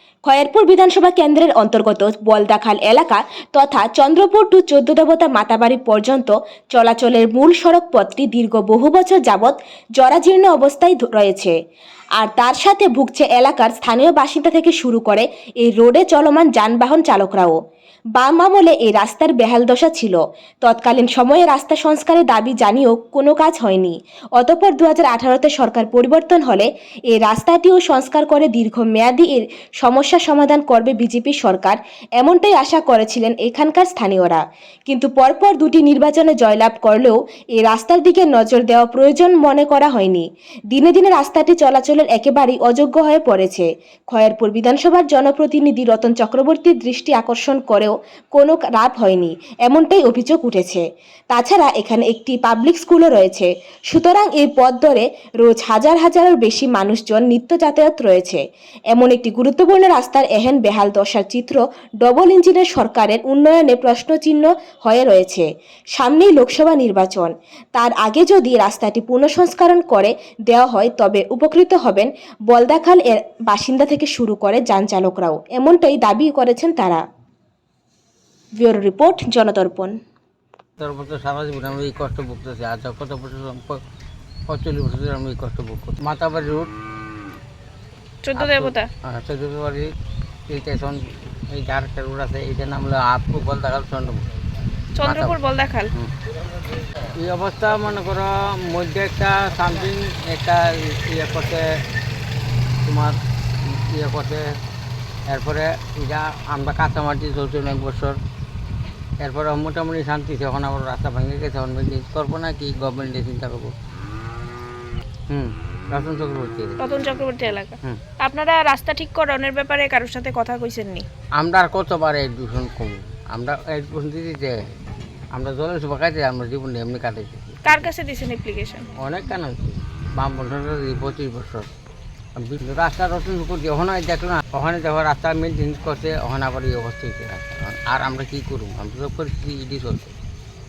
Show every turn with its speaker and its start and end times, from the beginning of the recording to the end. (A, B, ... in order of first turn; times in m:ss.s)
0:00.3-0:11.5 A
0:12.2-0:17.6 A
0:18.2-0:58.4 A
0:58.9-1:17.0 A
1:18.6-1:19.9 A
1:20.8-1:23.8 B
1:24.5-1:26.7 B
1:28.2-1:28.9 C
1:28.4-1:29.9 B
1:30.5-1:34.3 B
1:35.0-1:35.9 C
1:35.0-1:35.4 B
1:37.2-1:41.6 B
1:42.8-1:44.5 B
1:45.3-1:48.2 B
1:49.2-1:53.7 B
1:55.3-1:56.8 B
1:56.8-2:01.1 C
2:01.4-2:04.6 B
2:05.3-2:07.9 B
2:07.6-2:08.9 C
2:09.0-2:11.7 B
2:12.4-2:20.1 B